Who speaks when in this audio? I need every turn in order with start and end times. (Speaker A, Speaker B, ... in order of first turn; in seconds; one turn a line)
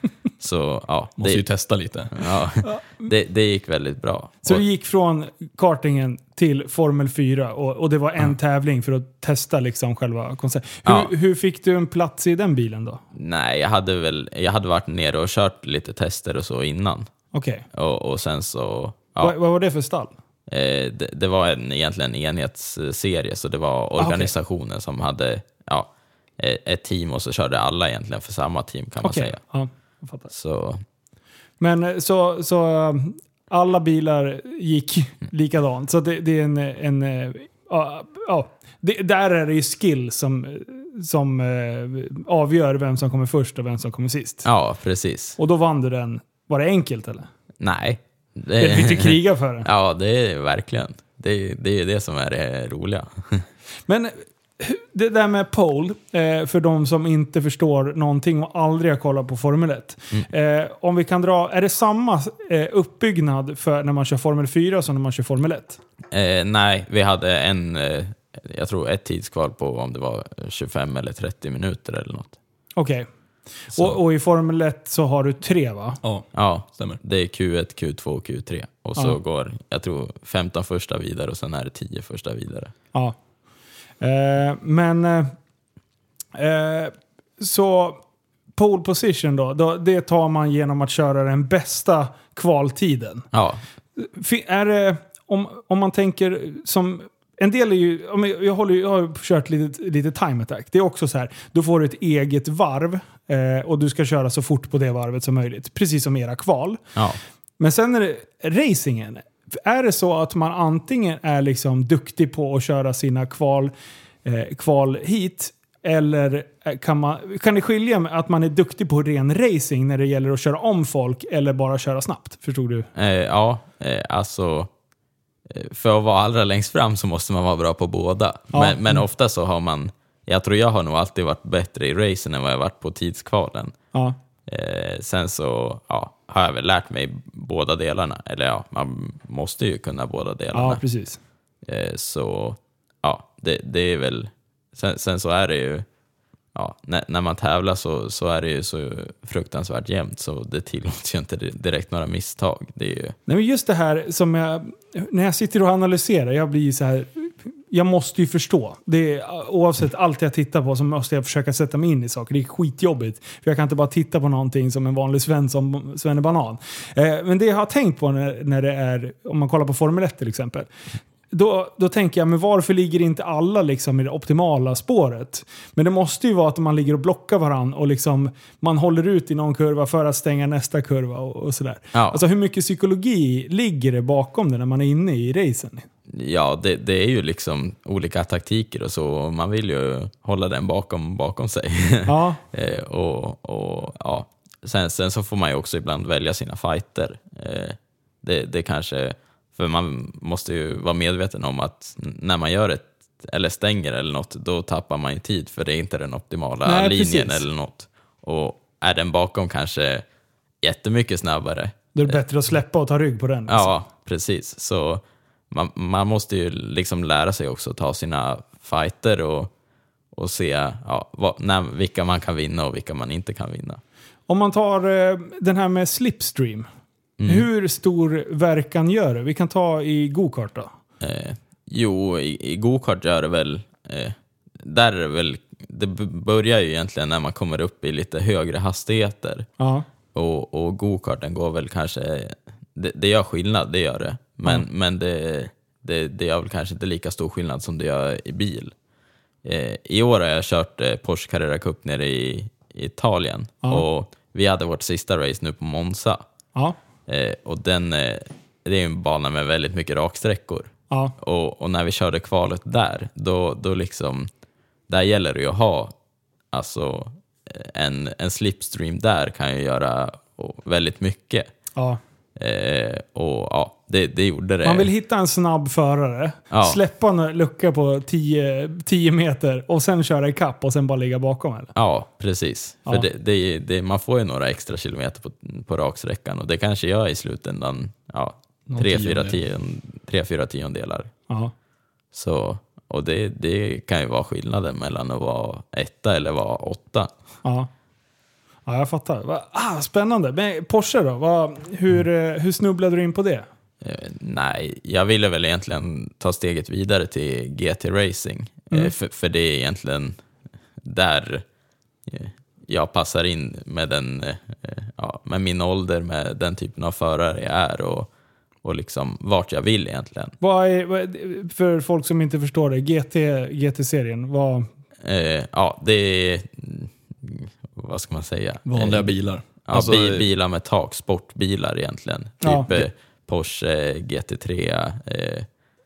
Speaker A: 0.4-1.4
Speaker B: 1.2-2.1
Speaker A: 2.1-4.6
Speaker C: 2.6-3.1
Speaker C: 4.4-13.0
Speaker A: 10.8-11.1
Speaker A: 13.1-17.1
Speaker C: 17.3-17.6
Speaker A: 17.7-19.4
Speaker C: 19.2-20.1
Speaker A: 20.5-29.4
Speaker C: 24.0-24.3
Speaker C: 29.0-30.3
Speaker A: 30.3-30.8
Speaker C: 31.6-44.5
Speaker A: 44.4-45.4
Speaker C: 45.4-47.3
Speaker A: 47.6-53.5
Speaker C: 48.6-49.7
Speaker C: 53.9-65.8
Speaker A: 66.1-72.4
Speaker C: 72.8-73.1
Speaker C: 73.7-76.0
Speaker B: 76.0-77.0
Speaker A: 76.3-82.7
Speaker C: 84.0-85.3
Speaker C: 86.3-88.0
Speaker C: 88.5-93.2
Speaker A: 93.3-93.6
Speaker C: 94.0-106.8
Speaker C: 107.6-113.7
Speaker C: 114.2-122.9
Speaker A: 122.9-124.7
Speaker A: 125.5-133.7
Speaker C: 128.5-129.0
Speaker A: 134.5-140.8
Speaker C: 140.5-141.2
Speaker A: 141.7-145.8
Speaker A: 146.5-153.2
Speaker C: 153.3-170.7
Speaker C: 171.3-185.8
Speaker A: 181.9-182.2
Speaker A: 186.1-210.0
Speaker C: 192.1-192.4
Speaker C: 206.6-207.4
Speaker A: 210.6-212.2
Speaker C: 211.9-213.7
Speaker A: 213.5-219.5
Speaker A: 220.1-223.8
Speaker C: 224.3-226.7
Speaker A: 227.2-227.5
Speaker C: 227.2-230.7
Speaker A: 231.0-239.5
Speaker C: 239.6-239.8
Speaker A: 240.1-248.7
Speaker A: 249.4-256.2
Speaker A: 257.1-264.3
Speaker A: 264.9-265.9
Speaker A: 266.5-271.5
Speaker A: 272.4-274.9
Speaker C: 274.6-281.7
Speaker A: 276.5-276.8
Speaker A: 281.7-291.1
Speaker B: 288.7-289.4
Speaker A: 292.1-297.1
Speaker C: 297.4-297.7
Speaker C: 298.6-303.4
Speaker A: 303.8-310.2
Speaker A: 310.8-311.4
Speaker A: 312.1-318.1
Speaker A: 318.6-320.3
Speaker C: 320.4-324.7
Speaker A: 325.0-335.5
Speaker B: 328.6-330.2
Speaker C: 332.4-332.7